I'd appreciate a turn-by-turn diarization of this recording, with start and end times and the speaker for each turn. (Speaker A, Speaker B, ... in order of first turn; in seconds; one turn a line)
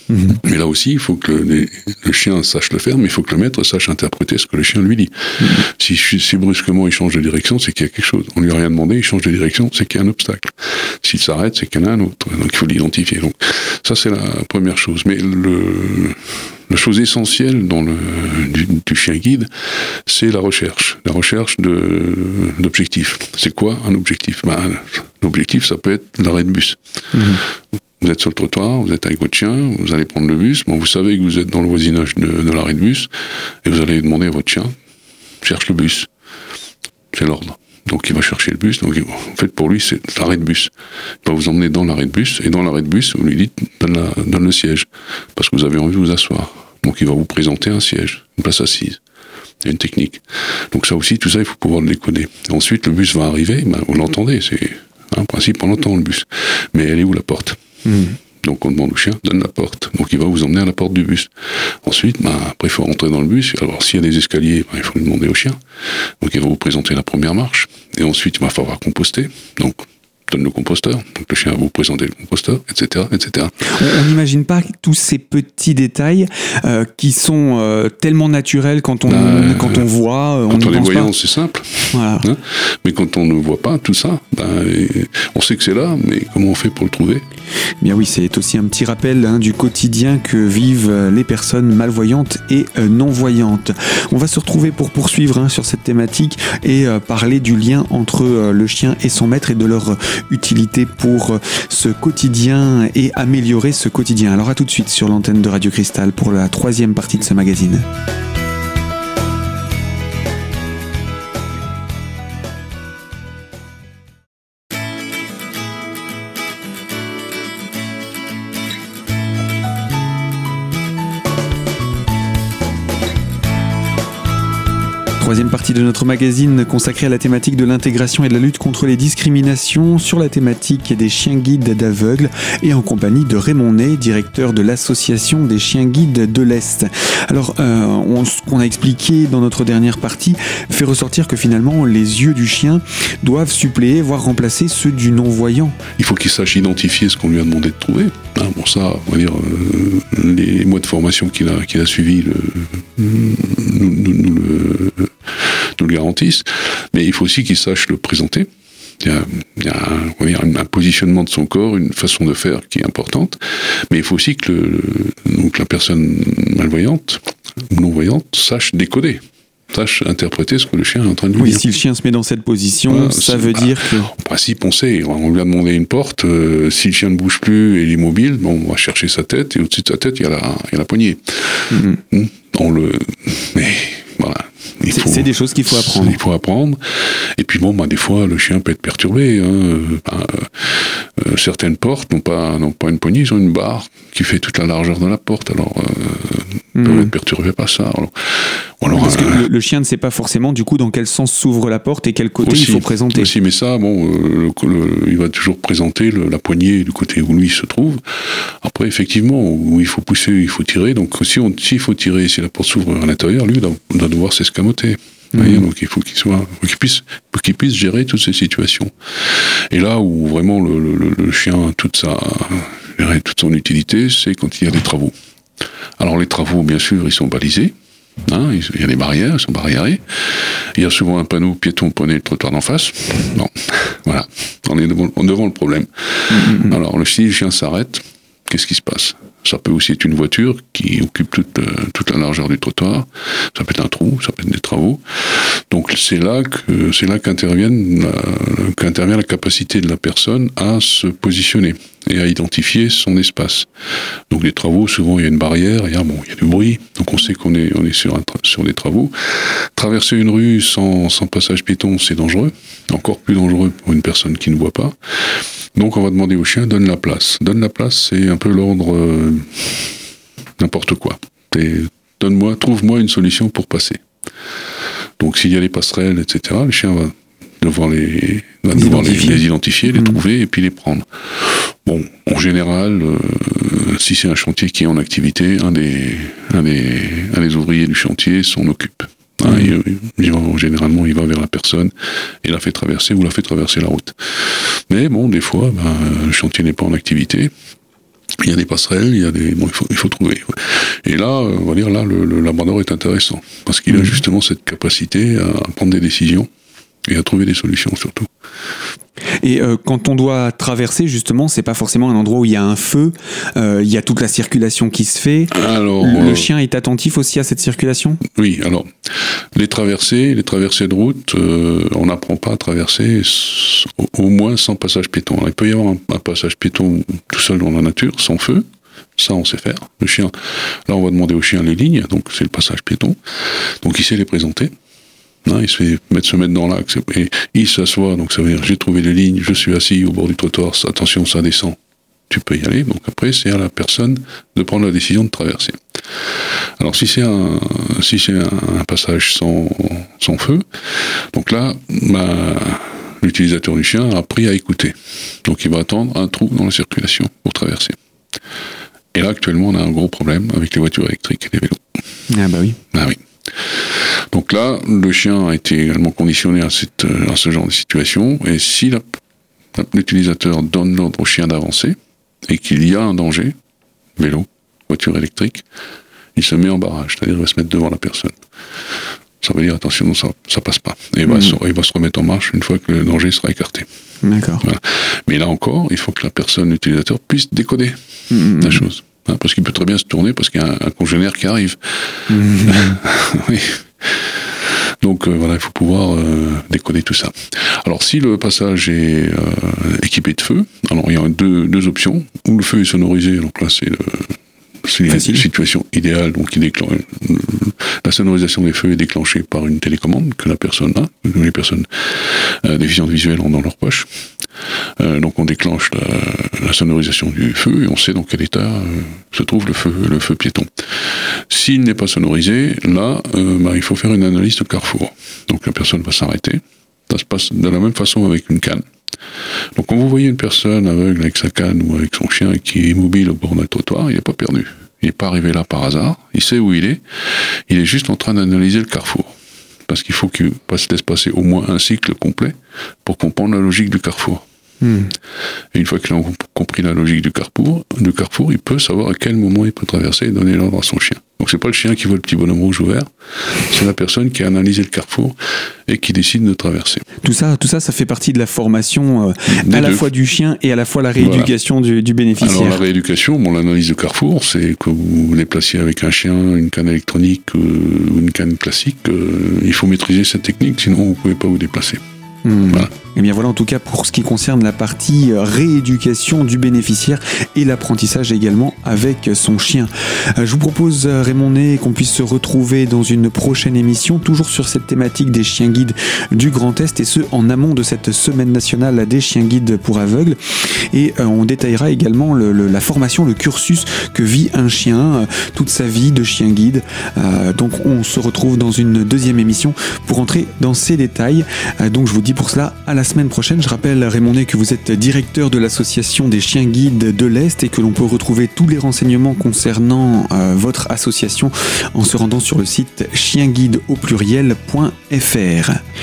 Speaker A: 0.1-0.4
Speaker B: 0.3-19.5
Speaker B: 20.1-26.8
Speaker A: 27.1-27.4
Speaker B: 28.0-33.1
Speaker B: 33.6-34.7
Speaker B: 35.4-36.1
Speaker B: 37.1-40.7
Speaker B: 41.2-49.0
Speaker B: 49.6-57.6
Speaker A: 57.9-58.2
Speaker B: 58.4-61.3
Speaker B: 61.8-65.6
Speaker B: 66.2-73.5
Speaker A: 73.6-81.1
Speaker B: 79.1-79.9
Speaker B: 80.5-87.2
Speaker A: 81.9-82.3
Speaker A: 87.8-107.9
Speaker A: 125.2-145.8
Speaker B: 146.0-158.5
Speaker B: 159.0-171.6
Speaker A: 171.3-174.1
Speaker B: 172.9-199.4
Speaker A: 181.7-182.0
Speaker A: 184.9-186.2
Speaker A: 196.8-197.1
Speaker A: 198.9-203.3
Speaker B: 202.4-225.1
Speaker A: 215.4-215.6
Speaker B: 226.0-227.7
Speaker B: 228.3-253.7
Speaker A: 236.3-236.8
Speaker B: 254.3-264.9
Speaker B: 265.8-270.0
Speaker B: 270.6-274.0
Speaker B: 275.2-291.9
Speaker A: 278.7-280.2
Speaker A: 289.5-289.7
Speaker B: 292.4-297.5
Speaker B: 298.4-306.5
Speaker A: 303.9-304.2
Speaker B: 307.1-308.3
Speaker A: 309.4-318.2
Speaker B: 315.5-316.5
Speaker B: 318.4-318.9
Speaker B: 319.6-328.6
Speaker B: 329.2-330.3
Speaker B: 330.9-333.2
Speaker B: 333.8-334.7
Speaker B: 335.4-341.8
Speaker B: 342.3-345.8
Speaker B: 346.8-350.6
Speaker B: 351.3-358.0
Speaker B: 359.1-361.8
Speaker A: 362.3-362.8
Speaker B: 362.9-363.2
Speaker B: 364.0-369.2
Speaker B: 369.8-372.0
Speaker B: 372.5-373.5
Speaker B: 374.2-375.6
Speaker B: 376.4-378.4
Speaker B: 379.4-383.9
Speaker A: 381.3-381.5
Speaker A: 384.2-384.6
Speaker B: 384.6-414.1
Speaker A: 388.3-388.8
Speaker A: 392.3-393.0
Speaker A: 405.1-405.5
Speaker B: 415.0-420.7
Speaker B: 421.3-428.8
Speaker B: 429.8-439.3
Speaker B: 439.9-444.4
Speaker A: 444.8-445.1
Speaker B: 445.7-455.4
Speaker B: 455.9-457.0
Speaker A: 457.2-462.8
Speaker B: 459.5-460.1
Speaker B: 461.2-461.5
Speaker B: 462.4-472.0
Speaker A: 472.4-515.8